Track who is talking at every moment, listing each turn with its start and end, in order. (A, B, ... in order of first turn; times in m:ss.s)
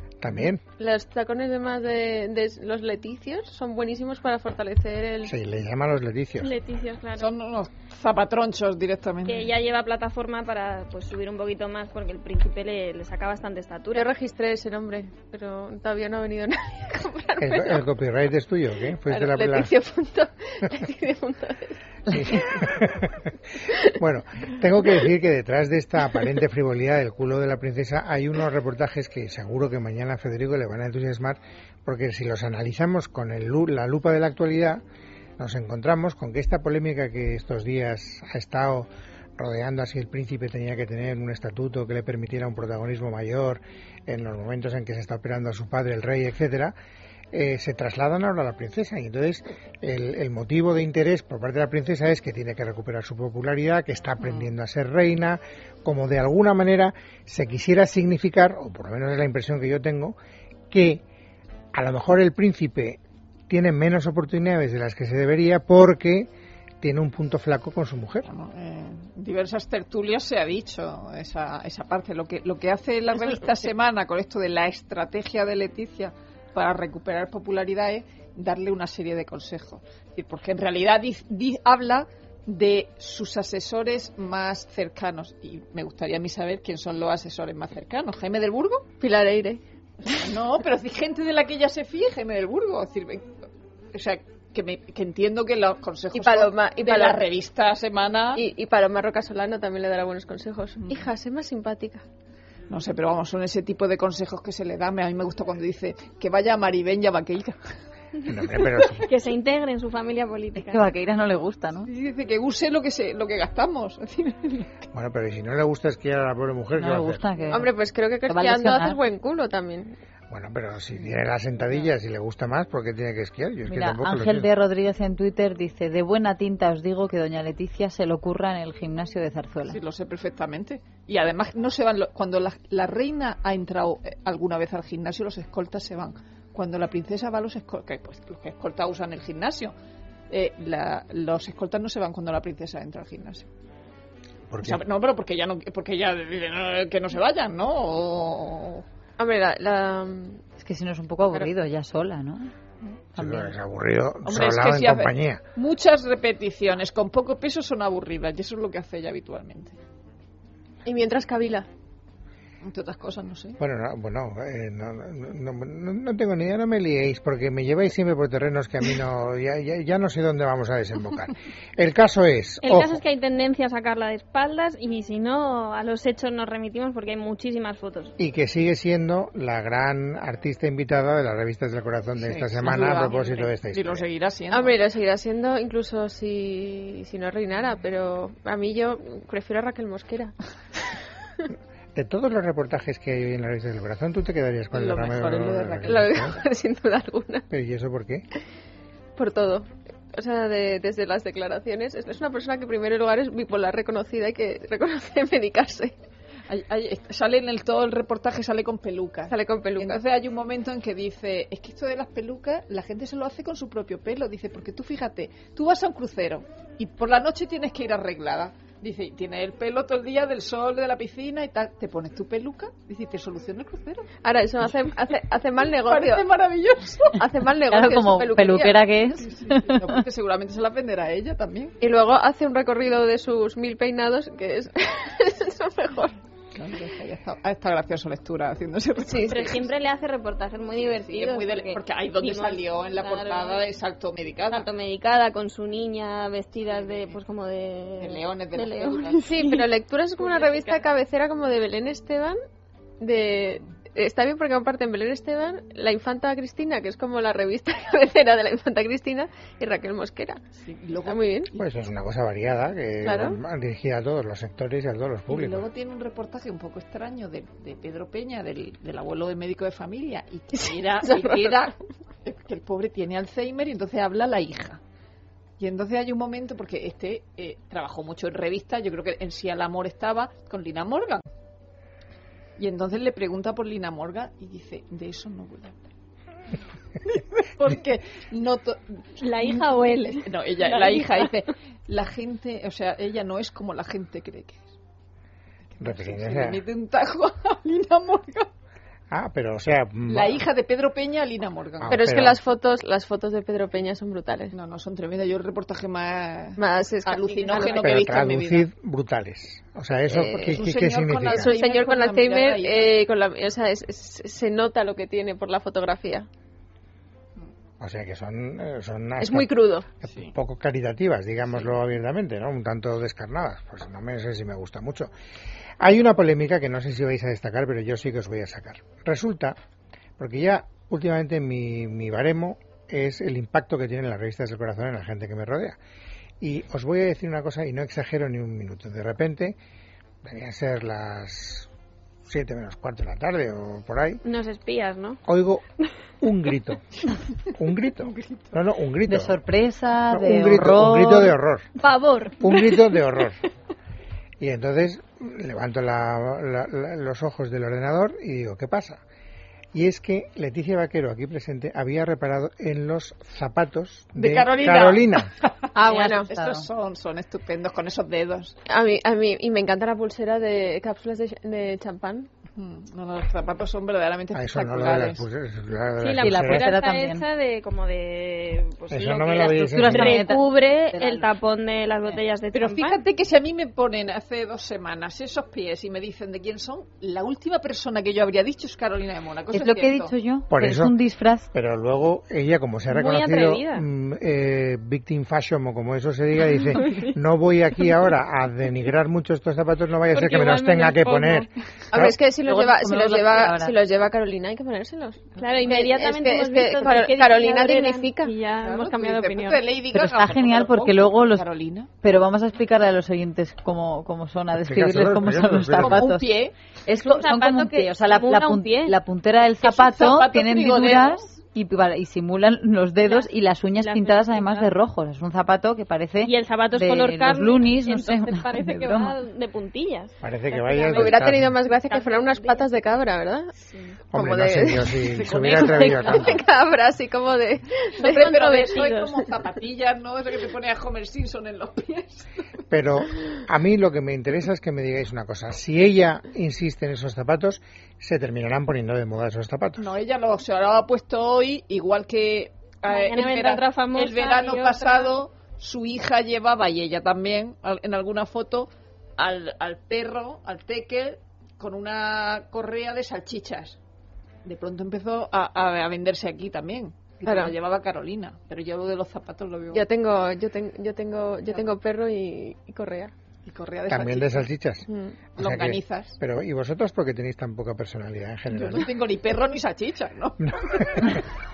0:00.2-0:00.6 A
0:00.8-0:05.4 B
0:05.2-0:06.5 A
0:06.4-0:07.3 C
0:07.2-0:09.5 D
0:09.3-0:14.1 C
0:14.0-0:17.8 B
0:17.4-0:19.7 A
0:19.1-0:22.7 B
0:22.1-0:23.3 A
0:23.9-0:34.8 A
0:35.4-0:46.7 A
0:47.3-1:00.2 A
1:00.7-1:01.0 A
1:01.7-1:06.3 A
1:06.8-1:08.3 A
1:08.3-1:28.9 D
1:29.0-1:29.6 B
1:30.0-1:33.3 D
1:33.9-1:38.4 D
1:36.1-1:37.3 B
1:38.4-1:42.0 B
1:42.7-1:47.7 D
1:48.2-1:49.1 A
1:49.0-1:50.8 C
1:50.6-1:51.9 E
1:51.9-1:54.9 D
1:54.9-1:57.2 A
1:56.8-1:57.7 E
1:57.5-2:00.0 B
1:58.3-1:59.0 E
2:00.3-2:04.5 A
2:03.7-2:09.8 E
2:09.7-2:19.7 D
2:20.3-2:23.5 D
2:24.5-2:24.8 A
2:24.6-2:28.8 D
2:29.2-2:30.4 B
2:30.6-2:32.5 E
2:33.2-2:33.5 E
2:33.2-2:35.4 A
2:34.2-2:39.8 D
2:40.8-2:41.7 B
2:42.6-2:43.6 D
2:43.6-2:53.0 A
2:52.6-2:58.1 C
2:58.2-3:04.1 A
3:02.2-3:04.8 D
3:04.5-3:10.4 B
3:12.0-3:16.4 A
3:14.7-3:16.1 D
3:15.8-3:17.5 B
3:17.5-3:18.3 A
3:19.2-3:26.0 B
3:26.5-3:44.1 D
3:29.3-3:30.0 B
3:44.2-3:46.3 B
3:45.8-3:47.2 D
3:47.1-3:48.8 B
3:47.7-3:50.0 E
3:49.2-3:51.8 D
3:51.8-3:56.2 B
3:56.6-3:59.6 D
3:59.1-3:59.6 B
3:59.2-4:03.6 C
4:00.8-4:04.7 D
4:04.5-4:09.7 C
4:06.6-4:07.2 D
4:08.0-4:09.4 D
4:09.2-4:12.4 B
4:10.2-4:10.8 C
4:13.0-4:20.4 B
4:20.6-4:21.6 D
4:21.1-4:21.5 B
4:21.6-4:25.7 A
4:23.0-4:23.4 B
4:25.3-4:34.8 D
4:30.6-4:31.6 B
4:35.6-4:41.2 D
4:42.6-4:45.8 D
4:47.0-4:54.7 D
4:49.2-4:51.4 C
4:55.7-4:58.5 D
4:55.8-4:56.6 A
4:59.1-5:00.4 A
5:00.1-5:02.0 D
5:01.8-5:02.4 A
5:01.9-5:04.5 B
5:04.5-5:08.7 D
5:06.6-5:08.0 B
5:07.7-5:11.5 A
5:10.2-5:12.9 D
5:11.3-5:16.3 B
5:17.8-5:19.5 A
5:19.2-5:19.9 B
5:20.0-5:25.1 A
5:25.8-5:29.6 A
5:30.2-5:35.8 A
5:36.4-5:39.6 A
5:40.2-5:41.7 A
5:42.2-5:44.2 A
5:44.2-5:45.2 C
5:45.3-5:45.6 A
5:46.2-5:46.8 A
5:47.6-5:49.4 A
5:48.0-5:48.6 D
5:49.1-5:51.3 E
5:50.1-5:51.7 A
5:51.8-5:52.7 C
5:52.4-5:53.4 A
5:54.4-5:59.0 A
5:59.7-6:05.3 A
6:04.2-6:08.6 D
6:05.8-6:06.3 B
6:05.8-6:06.7 E
6:08.7-6:12.3 B
6:12.6-6:15.2 D
6:14.3-6:16.7 A
6:16.0-6:23.0 C
6:16.2-6:17.2 E
6:18.9-6:20.2 A
6:19.7-6:21.3 E
6:22.5-6:30.1 D
6:29.5-6:31.5 E
6:30.5-6:31.0 A
6:31.5-6:42.2 A
6:32.9-6:33.8 C
6:36.8-6:37.1 C
6:40.1-6:41.5 C
6:41.9-6:48.3 B
6:42.4-6:43.8 E
6:45.4-6:49.6 C
6:48.6-6:51.9 D
6:49.9-6:51.5 E
6:52.0-6:56.3 E
6:54.6-6:56.1 A
6:55.8-6:56.5 D
6:56.9-7:09.2 E
6:56.9-6:59.0 C
6:59.6-7:01.2 D
7:03.0-7:04.7 C
7:06.2-7:12.7 C
7:10.2-7:11.6 A
7:10.9-7:13.5 B
7:14.1-7:16.4 A
7:14.1-7:18.8 B
7:15.1-7:16.2 D
7:18.0-7:19.2 C
7:18.0-7:22.4 D
7:22.7-7:29.9 A
7:29.8-7:43.8 D
7:32.9-7:35.2 C
7:44.4-7:49.8 D
7:47.3-7:47.5 B
7:49.7-7:53.1 B
7:53.5-7:54.5 D
7:53.9-7:54.9 A
7:54.9-7:55.2 B
7:55.4-7:56.2 D
7:55.4-7:58.9 A
7:58.5-8:01.2 D
8:00.4-8:01.2 A